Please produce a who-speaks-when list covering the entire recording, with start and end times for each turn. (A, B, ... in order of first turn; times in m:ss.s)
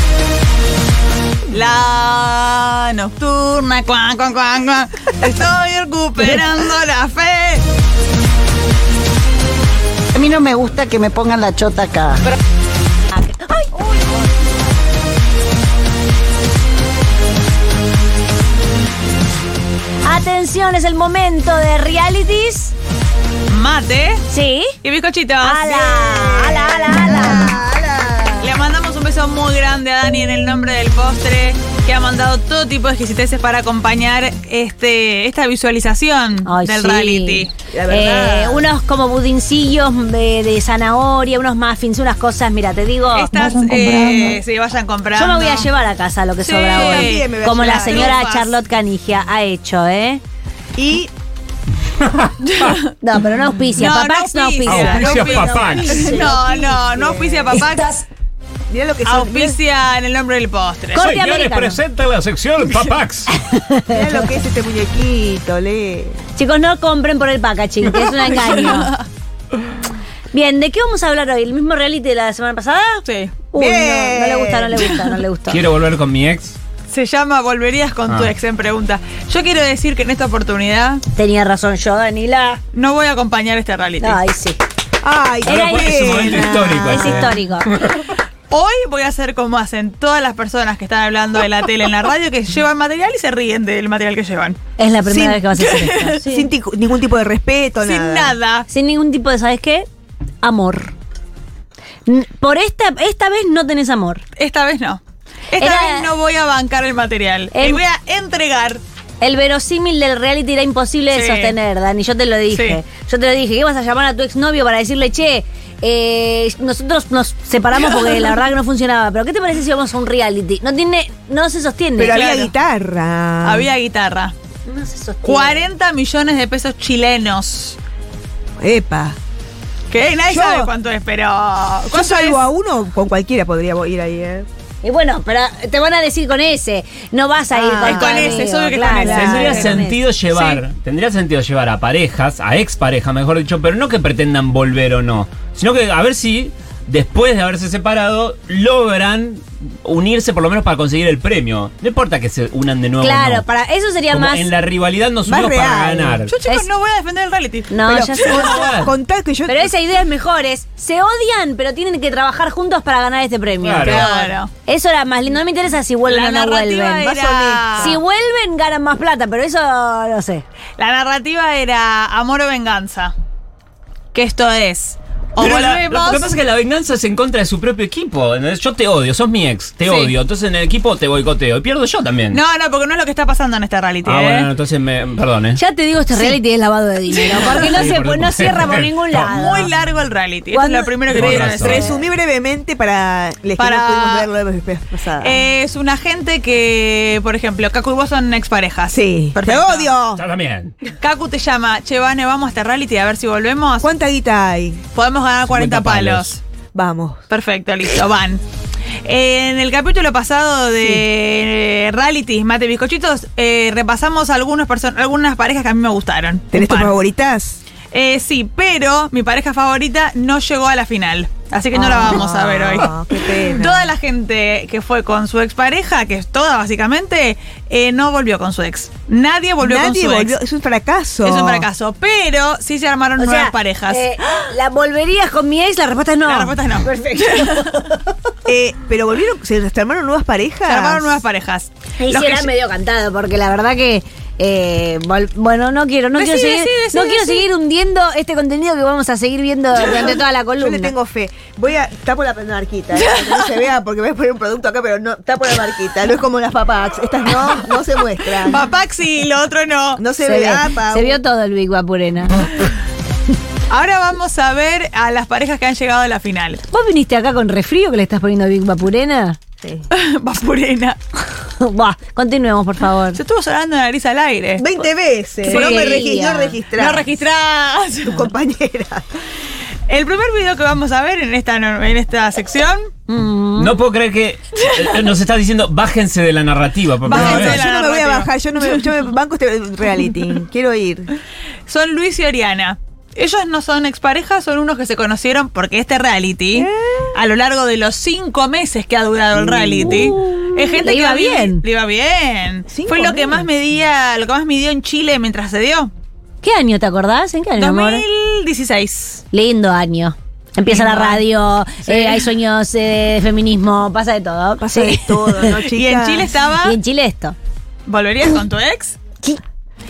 0:01.5-0:07.6 A
0:10.2-0:12.2 B
0:13.2-0:13.7 C
0:20.0-0:22.7 C
0:23.5-0:24.2 A
0:24.3-0:24.7 C
0:24.8-0:25.9 A
0:25.4-0:27.6 C
0:25.8-0:28.5 D
0:28.4-0:37.5 A
0:36.4-0:43.4 C
0:37.7-0:38.7 D
0:43.1-0:45.7 A
0:43.7-0:44.3 B
0:45.2-0:50.2 C
0:46.4-0:48.6 A
0:46.7-0:48.2 D
0:50.8-0:51.1 D
0:52.0-0:52.7 E
0:52.5-0:52.8 A
0:53.0-0:55.1 C
0:53.8-0:57.9 A
0:54.6-0:56.3 E
0:54.8-0:57.8 D
0:58.7-0:59.6 D
0:59.0-1:01.0 A
1:00.9-1:01.8 C
1:01.0-1:03.3 E
1:03.3-1:04.1 C
1:03.9-1:06.2 D
1:06.4-1:08.9 C
1:08.0-1:09.0 A
1:10.3-1:15.6 C
1:13.0-1:13.4 A
1:13.6-1:14.9 D
1:15.5-1:16.6 E
1:16.9-1:21.0 A
1:21.1-1:22.6 C
1:22.7-1:24.2 A
1:24.0-1:24.6 C
1:25.0-1:27.3 D
1:25.4-1:27.7 C
1:25.4-1:28.0 E
1:28.5-1:34.6 A
1:34.8-1:36.5 C
1:35.1-1:35.5 D
1:35.6-1:36.2 A
1:36.2-1:38.4 D
1:37.8-1:38.7 A
1:38.7-1:39.9 C
1:40.4-1:40.9 C
1:42.1-1:44.2 C
1:44.4-1:45.0 A
1:45.5-1:48.8 A
1:45.6-1:46.1 C
1:47.5-1:47.8 C
1:49.2-2:02.2 C
1:51.1-1:51.6 A
1:52.5-1:52.8 A
2:02.0-2:03.7 D
2:02.1-2:02.5 A
2:03.4-2:04.4 A
2:04.7-2:05.7 C
2:05.2-2:07.8 A
2:08.6-2:09.2 D
2:09.9-2:12.4 A
2:10.3-2:10.7 D
2:11.9-2:14.5 D
2:14.8-2:20.0 C
2:17.5-2:19.7 D
2:17.8-2:19.7 A
2:19.1-2:33.5 E
2:20.3-2:20.6 A
2:33.0-2:34.5 C
2:34.1-2:36.3 E
2:35.3-2:36.2 D
2:36.3-2:37.7 A
2:37.7-2:38.6 C
2:37.8-2:39.7 D
2:38.3-2:38.9 E
2:39.5-2:44.1 C
2:43.6-2:44.3 E
2:43.8-2:44.5 A
2:43.9-2:44.3 D
2:44.7-2:47.1 C
2:46.1-2:48.0 A
2:47.0-2:48.0 D
2:47.8-2:50.4 C
2:50.8-2:53.2 A
2:54.1-2:56.3 A
2:55.4-3:02.4 E
2:59.8-3:00.1 A
3:02.3-3:04.5 A
3:04.0-3:05.6 E
3:05.6-3:09.7 C
3:07.6-3:09.3 E
3:09.3-3:11.9 A
3:10.5-3:12.0 C
3:11.1-3:11.9 E
3:11.5-3:15.4 D
3:13.6-3:14.3 A
3:15.2-3:20.0 A
3:18.9-3:20.2 D
3:20.2-3:20.8 E
3:21.0-3:23.9 A
3:23.8-3:24.8 D
3:25.0-3:26.4 A
3:25.5-3:26.3 E
3:26.7-3:27.2 D
3:27.3-3:28.4 A
3:29.0-3:37.0 A
3:30.8-3:31.1 D
3:36.5-3:37.6 D
3:37.9-3:50.4 A
3:41.7-3:43.9 D
3:49.6-3:51.7 D
3:51.2-3:54.0 A
3:53.2-3:58.0 C
3:56.2-3:57.6 A
3:58.5-4:01.2 D
4:00.7-4:02.5 A
4:02.0-4:10.9 C
4:06.2-4:07.4 A
4:10.6-4:18.7 D
4:13.0-4:13.5 A
4:18.4-4:20.0 A
4:20.0-4:21.2 D
4:20.2-4:22.4 C
4:23.7-4:26.6 A
4:26.7-4:29.4 C
4:29.9-4:31.0 A
4:31.6-4:33.2 C
4:33.1-4:34.8 A
4:34.6-4:37.1 D
4:35.5-4:36.1 A
4:35.5-4:36.6 C
4:36.8-4:38.2 A
4:38.0-4:39.1 D
4:39.9-4:42.9 A
4:43.1-4:43.8 C
4:43.6-4:47.7 E
4:47.0-4:48.8 A
4:47.1-4:51.1 D
4:51.7-5:05.9 A
4:56.5-4:57.1 D
4:59.7-5:01.6 C
5:02.7-5:03.5 D
5:06.4-5:08.0 C
5:07.6-5:09.2 A
5:09.3-5:15.5 C
5:10.6-5:11.2 A
5:11.9-5:12.3 A
5:14.6-5:16.3 D
5:15.5-5:16.8 A
5:16.6-5:17.4 C
5:17.9-5:19.0 A